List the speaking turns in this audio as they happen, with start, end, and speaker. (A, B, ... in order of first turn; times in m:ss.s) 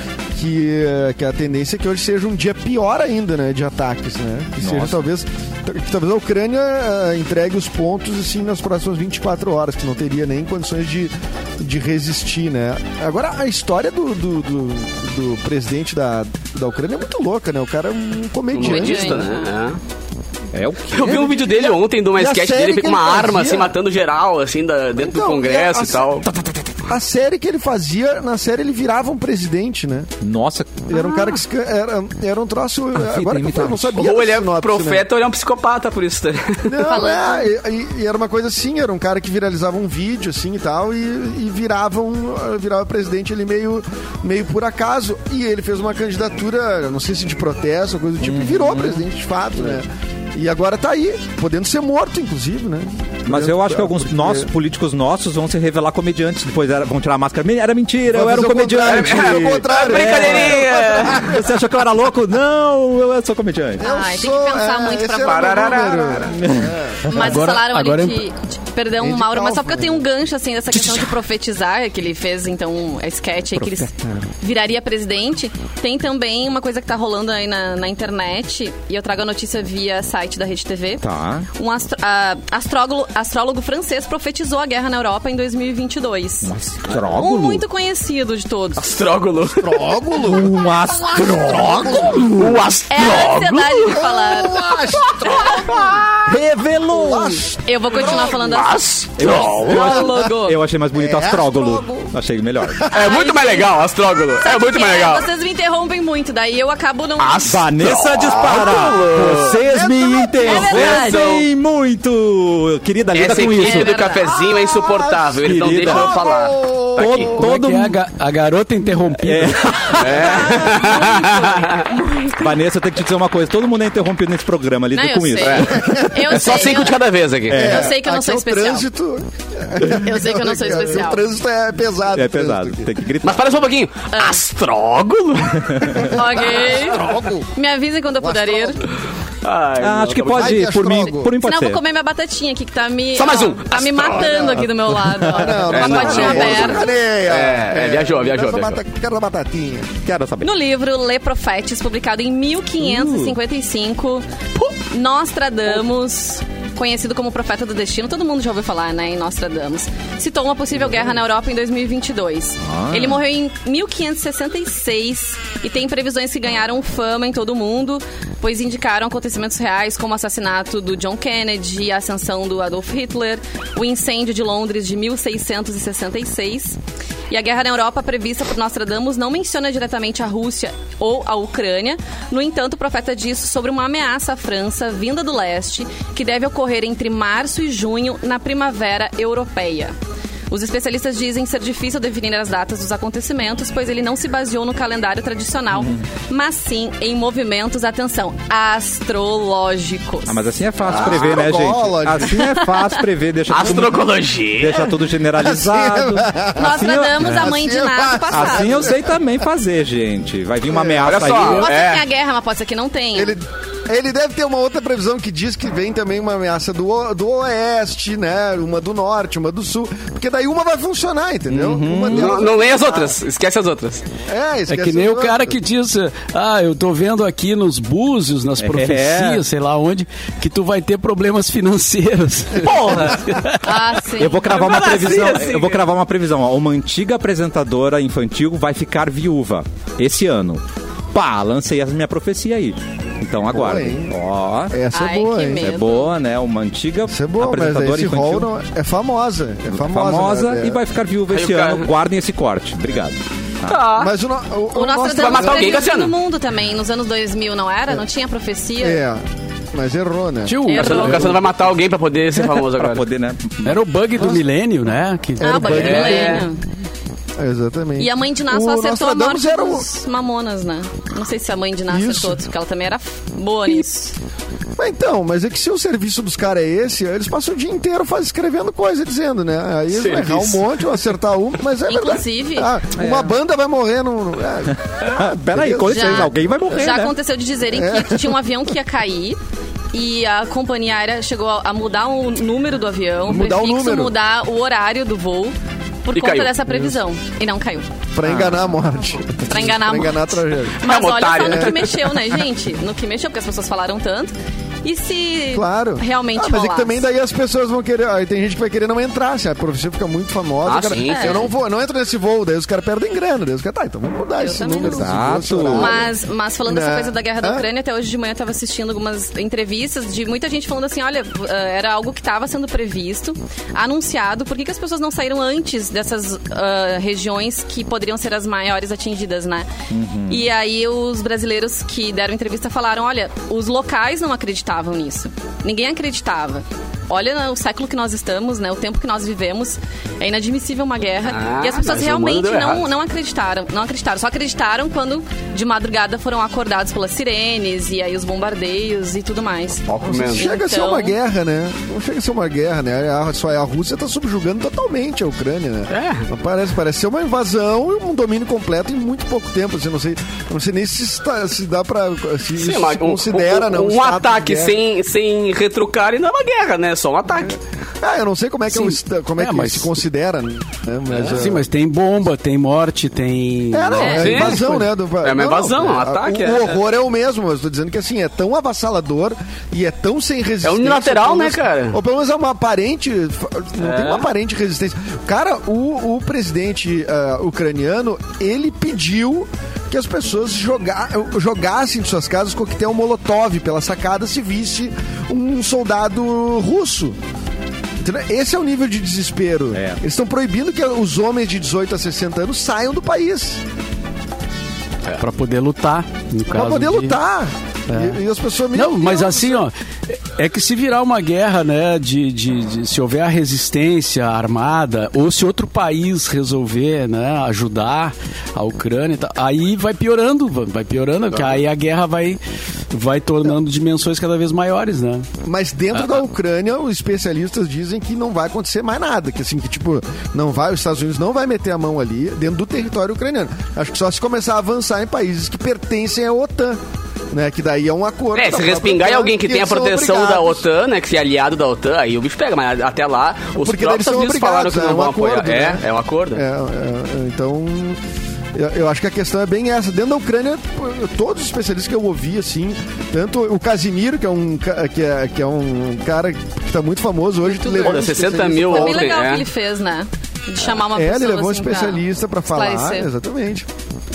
0:00.4-0:19.3 A
0:04.6-0:05.0 B
0:18.5-0:19.8 C
0:18.6-0:19.4 D
0:20.5-0:21.5 B
0:20.9-0:26.3 C
0:21.3-0:23.8 A
0:25.0-0:26.3 A
0:26.8-0:30.1 A
0:30.2-0:30.9 B
0:30.9-0:35.0 A
0:33.0-0:34.0 B
0:34.0-0:36.8 C
0:36.7-0:54.5 A
0:36.8-0:37.5 D
0:48.2-0:49.0 B
0:53.3-1:03.8 B
0:58.1-1:01.5 A
0:58.8-1:01.4 C
1:03.8-1:06.0 D
1:03.8-1:07.2 A
1:05.2-1:06.4 C
1:06.4-1:06.7 B
1:07.0-1:26.5 D
1:07.1-1:08.2 E
1:09.0-1:10.0 A
1:13.6-1:14.1 B
1:21.0-1:21.5 B
1:26.4-1:27.6 B
1:27.0-1:28.8 D
1:28.8-1:30.0 C
1:29.6-1:32.3 A
1:30.2-1:32.6 B
1:32.2-1:34.0 C
1:32.9-1:34.8 D
1:33.9-1:36.3 A
1:35.0-1:36.0 C
1:36.3-1:37.4 B
1:36.9-1:38.4 A
1:37.6-1:38.8 D
1:38.1-1:40.0 C
1:39.2-1:42.8 B
1:39.5-1:40.6 D
1:39.6-1:40.2 A
1:40.9-1:42.1 A
1:42.9-1:45.3 C
1:42.9-1:43.8 D
1:44.4-1:47.6 D
1:47.2-1:49.6 C
1:47.4-1:54.0 B
1:49.6-1:51.0 A
1:50.4-1:51.4 D
1:50.5-1:51.4 C
1:53.1-1:57.4 C
1:53.4-1:54.3 D
1:54.3-1:57.5 A
1:55.4-1:56.2 B
1:57.0-1:58.0 B
1:57.4-2:00.0 E
1:59.2-2:01.2 B
2:00.0-2:01.9 C
2:00.8-2:02.5 D
2:02.3-2:06.0 B
2:04.9-2:07.0 D
2:05.4-2:07.8 C
2:05.7-2:06.6 A
2:07.5-2:12.9 A
2:07.5-2:07.9 B
2:07.6-2:08.9 D
2:09.9-2:11.3 D
2:12.1-2:13.6 B
2:13.2-2:16.8 C
2:14.1-2:14.4 D
2:15.7-2:16.0 B
2:16.0-2:18.8 D
2:16.4-2:17.5 A
2:18.2-2:18.8 A
2:19.4-2:20.7 C
2:19.8-2:21.8 B
2:20.3-2:21.4 A
2:21.4-2:26.9 D
2:23.2-2:24.6 C
2:24.1-2:24.7 A
2:25.1-2:25.3 B
2:25.2-2:29.9 A
2:25.6-2:28.8 C
2:30.0-2:30.5 B
2:30.4-2:56.8 D
2:32.8-2:33.4 B
2:42.6-2:43.2 B
2:57.3-3:10.0 D
3:10.5-3:20.5 D
3:15.8-3:16.0 B
3:20.3-3:27.4 B
3:20.9-3:22.5 A
3:21.0-3:21.3 C
3:22.4-3:22.9 D
3:23.5-3:24.9 C
3:25.4-3:29.2 A
3:26.6-3:28.9 D
3:28.3-3:31.7 B
3:30.7-3:31.4 A
3:31.0-3:32.1 C
3:31.5-3:33.4 D
3:33.1-3:43.1 A
3:41.5-3:42.5 B
3:42.0-3:44.0 C
3:44.3-3:45.6 A
3:44.7-3:53.9 E
3:48.6-3:49.4 B
3:52.6-3:53.3 C
3:53.6-3:54.8 D
3:54.2-4:00.6 B
3:54.4-3:55.8 C
4:01.1-4:04.8 B
4:03.5-4:04.1 A
4:04.7-4:05.7 A
4:04.9-4:06.1 D
4:05.6-4:08.5 B
4:07.1-4:10.8 A
4:09.7-4:13.8 B
4:11.3-4:11.9 C
4:13.7-4:14.1 C
4:13.9-4:15.9 A
4:14.7-4:19.0 D
4:15.2-4:16.2 C
4:18.8-4:20.6 A
4:20.5-4:21.4 E
4:20.6-4:21.4 D
4:20.7-4:23.1 C
4:22.6-4:23.8 B
4:23.6-4:26.4 E
4:25.4-4:26.5 A
4:25.4-4:26.6 D
4:25.6-4:26.5 C
4:27.4-4:29.9 A
4:28.0-4:34.2 D
4:31.9-4:32.4 A
4:34.8-4:46.3 A
4:39.9-4:40.7 C
4:41.9-4:42.7 D
4:43.0-4:43.4 B
4:44.9-4:47.1 B
4:45.9-4:49.4 D
4:47.7-4:48.4 A
4:49.9-4:57.9 D
4:53.2-4:54.1 A
4:56.1-4:56.5 C
4:58.1-5:00.8 A
4:58.2-4:58.6 B
4:59.5-5:07.0 D
5:00.8-5:02.2 C
5:01.4-5:01.8 A
5:05.5-5:16.1 A
5:10.6-5:11.5 C
5:11.0-5:11.5 D
5:14.4-5:15.2 D
5:14.8-5:16.0 B
5:15.7-5:29.7 D
5:16.7-5:17.6 A
5:29.9-5:30.4 B
5:30.3-5:51.2 D
5:41.3-5:42.9 C
5:49.9-5:50.5 C
5:50.0-6:04.8 A
5:55.9-5:56.3 C
6:02.6-6:07.6 C
6:08.0-6:11.6 A
6:08.7-6:10.0 E
6:11.2-6:14.9 E
6:13.7-6:37.2 A
6:14.0-6:14.3 D
6:14.0-6:16.8 C
6:20.6-6:22.0 C
6:23.8-6:24.3 C
6:38.0-6:43.6 A
6:39.7-6:40.0 B
6:45.2-6:47.2 E
6:46.5-6:49.6 A
6:47.9-6:48.2 E
6:48.7-7:02.4 E
7:02.9-7:05.3 E
7:05.4-7:16.8 A
7:17.3-7:20.6 A
7:18.4-7:26.4 C
7:23.6-7:28.0 A
7:28.5-7:39.3 A
7:37.6-7:38.1 D
7:37.7-7:39.5 C
7:38.7-7:43.1 D
7:40.9-7:43.7 A